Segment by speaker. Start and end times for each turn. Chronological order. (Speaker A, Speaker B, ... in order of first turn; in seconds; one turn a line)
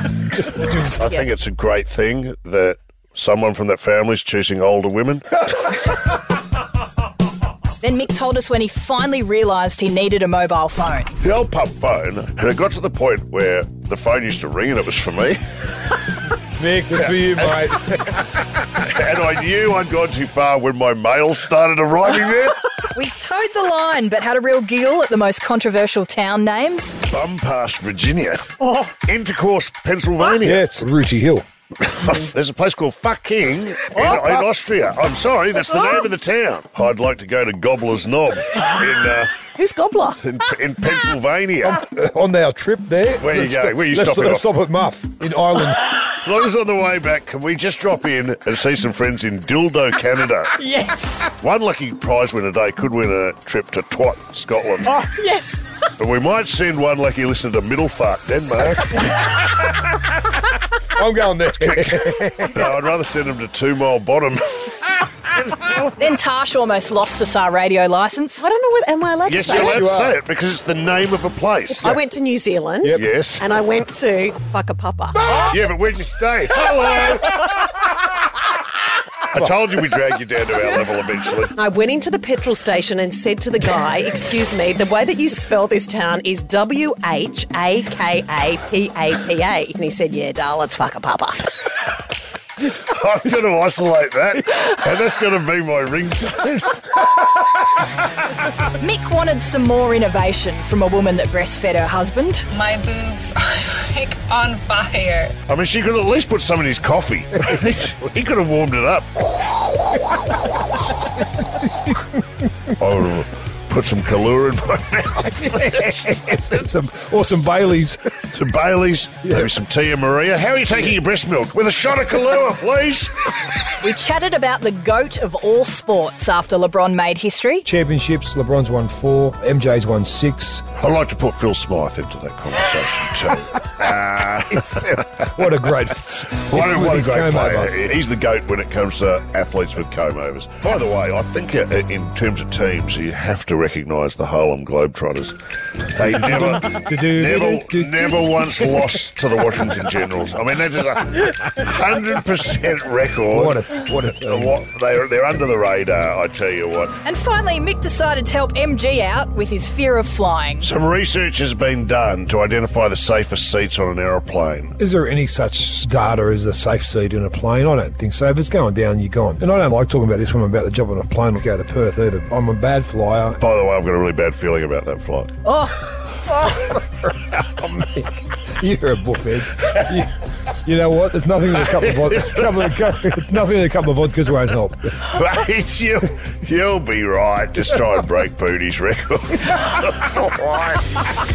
Speaker A: 0.4-1.1
Speaker B: 1.0-5.4
Speaker C: 7.8-11.1
Speaker B: 11.2-15.4
Speaker A: 16.6-18.2
Speaker B: 17.0-17.8
Speaker B: 18.7-22.6
Speaker C: 22.9-26.9
Speaker B: 27.1-30.7
Speaker C: 28.6-28.9
Speaker A: 30.4-31.4
Speaker B: 31.8-39.5
Speaker C: 34.0-34.3
Speaker D: 39.5-40.2
Speaker B: 40.2-41.8
Speaker A: 41.6-45.8
Speaker B: 43.2-44.5
Speaker B: 46.2-50.6
Speaker C: 50.5-51.3
Speaker B: 51.4-55.0
Speaker C: 54.9-55.6
Speaker B: 56.0-59.3
Speaker A: 61.0-62.6
Speaker B: 61.6-65.9
Speaker C: 66.0-68.5
Speaker D: 68.4-69.9
Speaker B: 69.3-72.0
Speaker A: 69.4-70.2
Speaker D: 71.8-75.2
Speaker B: 72.9-73.4
Speaker B: 75.5-77.4
Speaker B: 79.3-81.5
Speaker D: 81.5-91.5
Speaker A: 92.6-93.3
Speaker B: 92.8-96.9
Speaker C: 98.8-102.5
Speaker E: 102.5-105.3
Speaker B: 105.5-110.0
Speaker A: 107.5-107.9
Speaker A: 111.4-112.5
Speaker B: 112.8-116.6
Speaker A: 115.2-118.1
Speaker B: 118.3-123.2
Speaker A: 119.2-119.5
Speaker C: 123.8-127.7
Speaker A: 127.6-130.7
Speaker B: 130.8-135.3
Speaker A: 134.5-137.7
Speaker B: 136.3-145.3
Speaker B: 145.9-157.0
Speaker A: 146.0-148.8
Speaker A: 153.3-154.6
Speaker C: 157.0-160.7
Speaker B: 160.6-164.8
Speaker A: 164.8-173.4
Speaker B: 173.4-175.4
Speaker A: 176.4-184.9
Speaker B: 181.6-182.7
Speaker B: 185.0-190.8